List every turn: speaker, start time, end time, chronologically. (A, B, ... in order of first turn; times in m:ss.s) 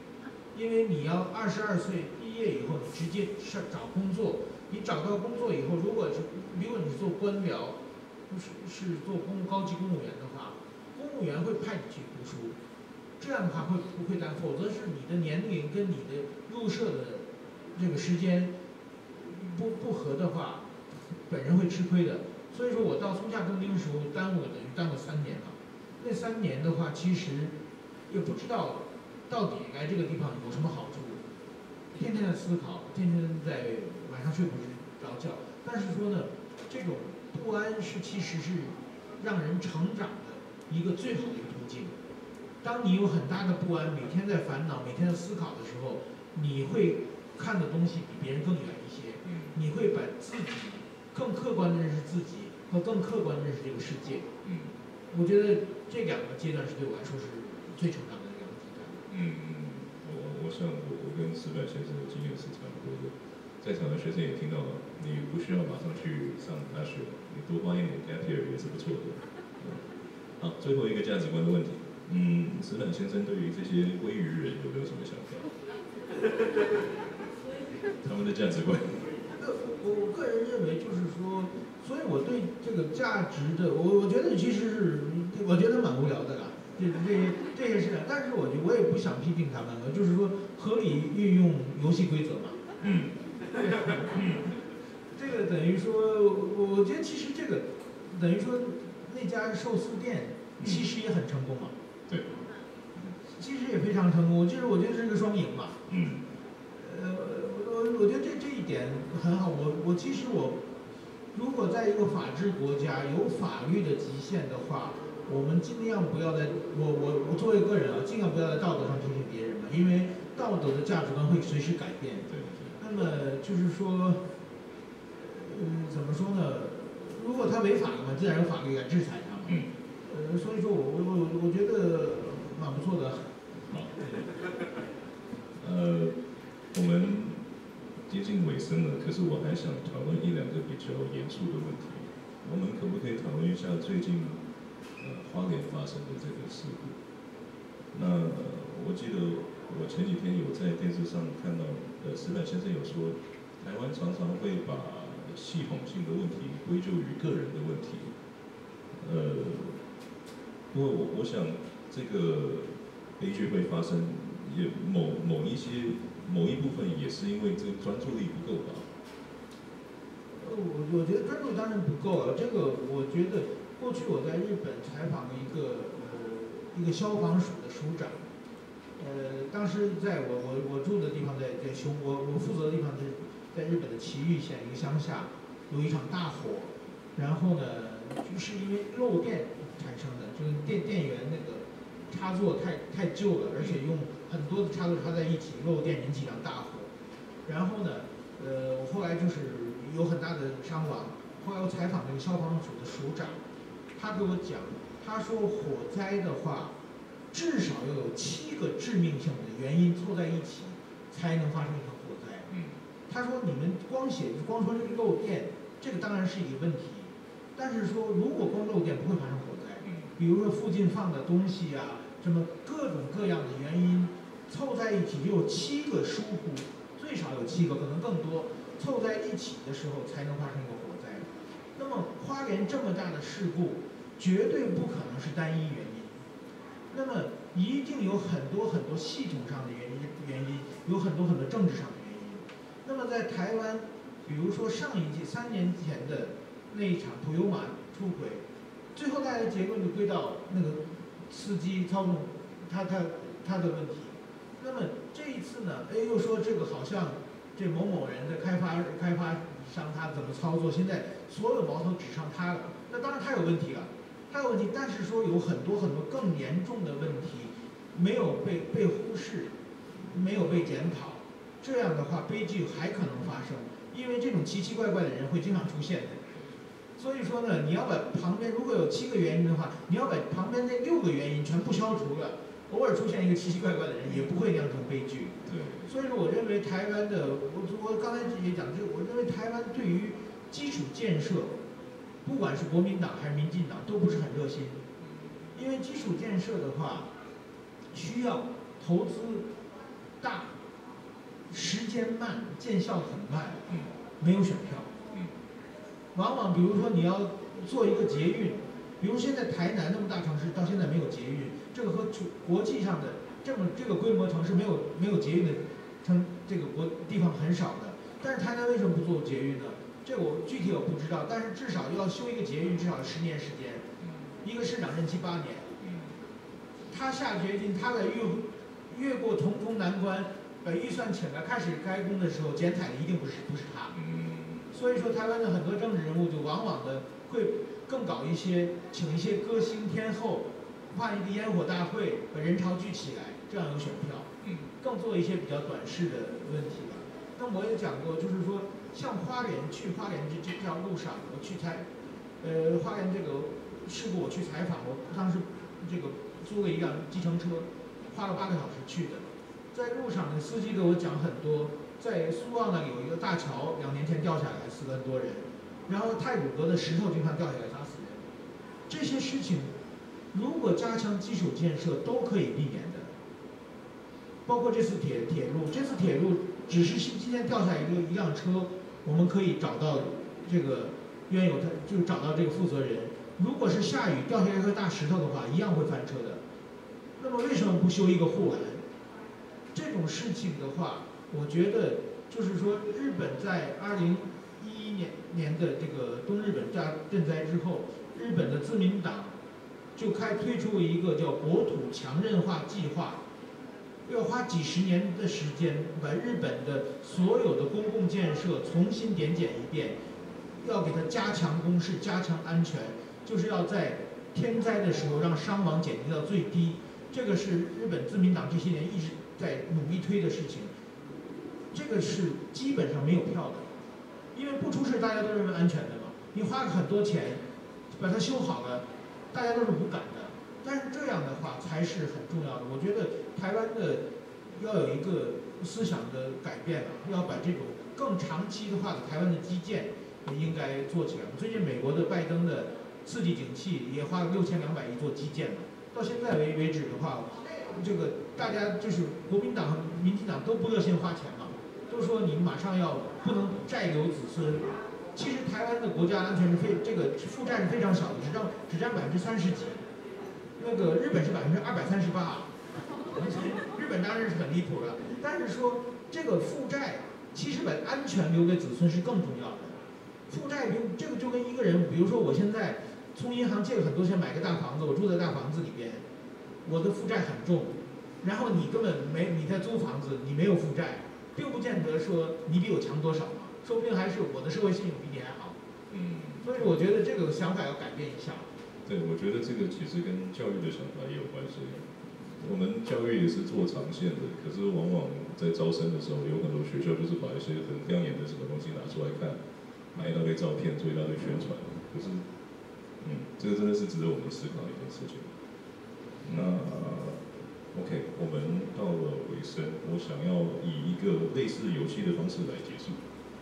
0:00.5-0:12.6 A
0:13.2-0:18.5 A
0:19.1-0:27.6 A
0:28.1-0:31.2 A
0:31.9-0:41.9 A
0:42.6-0:54.3 A
0:49.2-0:49.6 B
0:54.4-0:54.7 B
0:55.1-0:59.0 A
0:59.1-1:09.8 B
1:10.4-1:15.5 B
1:18.0-1:19.1 B
1:19.4-1:32.6 A
1:32.8-1:33.2 B
1:33.5-1:34.2 A
1:34.1-1:34.5 B
1:35.1-1:41.7 A
1:40.6-1:40.8 B
1:43.0-1:45.8 A
1:45.9-1:46.2 B
1:46.8-1:50.6 A
1:51.3-2:02.2 A
2:02.3-2:02.8 B
2:02.8-2:04.3 A
2:05.2-2:13.4 A
2:13.7-2:14.0 B
2:15.6-2:16.2 B
2:16.7-2:17.4 B
2:18.1-2:24.4 B
2:25.0-2:27.0 B
2:27.9-2:38.1 B
2:38.9-2:39.8 B
2:40.7-2:48.9 B
2:50.3-2:58.2 A
2:59.0-3:16.9 A
3:17.4-3:23.4 A
3:23.9-3:26.7 A
3:27.3-3:32.5 A
3:32.5-3:32.8 B
3:33.1-3:56.2 A
3:39.8-3:40.1 B
3:56.9-4:36.2 A
4:37.0-4:51.6 A
4:45.4-4:45.9 B
4:52.2-4:54.8 A
4:55.0-4:55.3 B
4:55.5-4:57.1 A
4:57.9-4:59.5 A
5:00.2-5:00.6 A
5:01.5-5:03.6 A
5:04.2-5:04.9 A
5:06.1-5:23.8 A
5:24.0-5:24.3 B
5:24.4-5:25.7 A
5:25.8-5:26.2 B
5:26.9-5:33.9 A
5:33.9-5:34.7 B
5:34.7-5:44.3 A
5:44.4-5:44.7 B
5:44.8-5:51.9 A
5:52.4-6:08.2 A
6:08.9-6:09.7 A
6:10.3-6:13.1 A
6:14.4-6:26.4 A
6:27.2-6:28.8 A
6:29.7-6:39.4 A
6:40.0-6:43.2 A
6:44.0-6:50.0 A
6:50.5-7:00.7 A
7:01.7-7:03.7 A
7:04.3-7:39.8 A
7:40.6-7:42.5 A
7:43.1-7:56.0 A
7:56.6-8:05.6 A
8:05.9-8:06.6 B
8:06.4-8:08.5 A
8:08.8-8:19.4 B
8:19.9-8:22.2 B
8:23.0-8:25.3 B
8:26.2-8:33.0 B